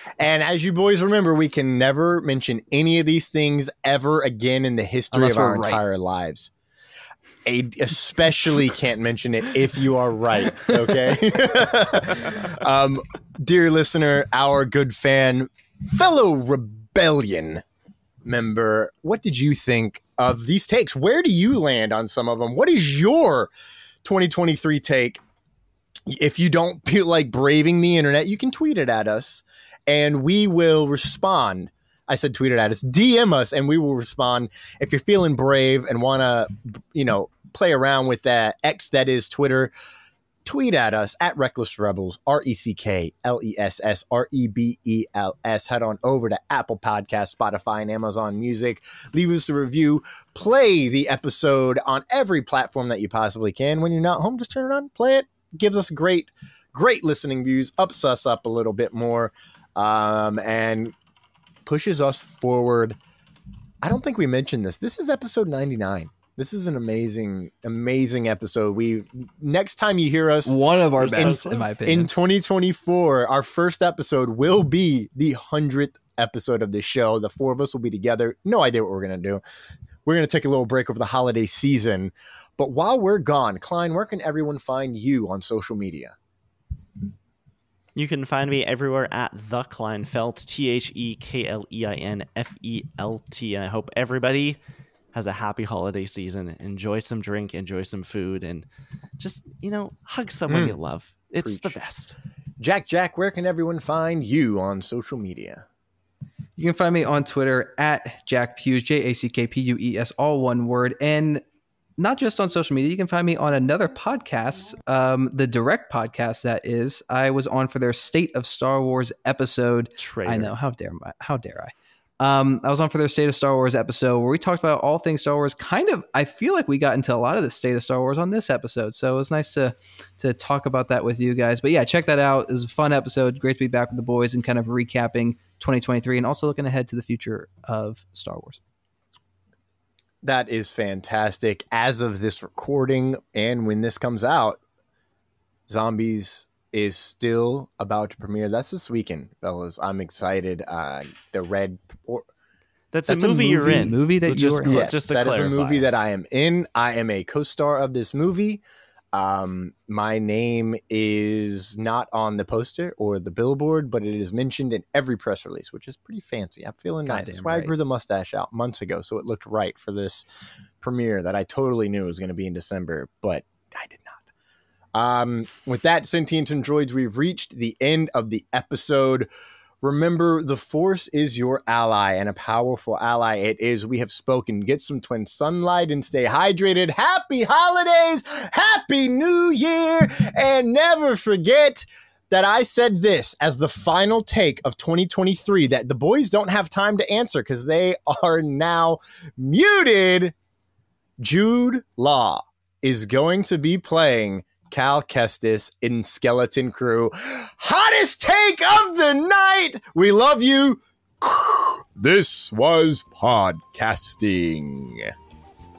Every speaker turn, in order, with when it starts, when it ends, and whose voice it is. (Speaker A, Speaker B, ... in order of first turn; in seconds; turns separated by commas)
Speaker A: 0.2-6.5, Speaker B: 5.1-5.8, Speaker A: 7.4-17.6, Speaker A: 18.2-23.5, Speaker A: 24.0-25.2, Speaker A: 26.1-39.7, Speaker A: 40.4-60.9, Speaker A: 61.6-63.0, Speaker A: 63.8-79.4, Speaker B: 70.4-72.1, Speaker C: 71.0-71.6, Speaker A: 80.0-86.1, Speaker C: 88.0-94.6, Speaker C: 95.1-98.7, Speaker C: 99.2-102.2, Speaker A: 100.5-100.8, Speaker A: 101.4-101.8, Speaker A: 102.6-105.6, Speaker B: 106.6-111.4, Speaker B: 112.0-138.6, Speaker C: 120.0-120.5, Speaker A: 140.2-144.6, Speaker A: 145.7-152.3, Speaker C: 152.9-155.9, Speaker B: 153.1-154.9, Speaker A: 153.4-153.9, Speaker A: 154.6-158.6, Speaker A: 159.1-170.2, Speaker B: 167.1-167.7, Speaker A: 170.8-174.2, Speaker A: 174.9-179.3, Speaker A: 179.8-200.3, Speaker A: 201.2-215.1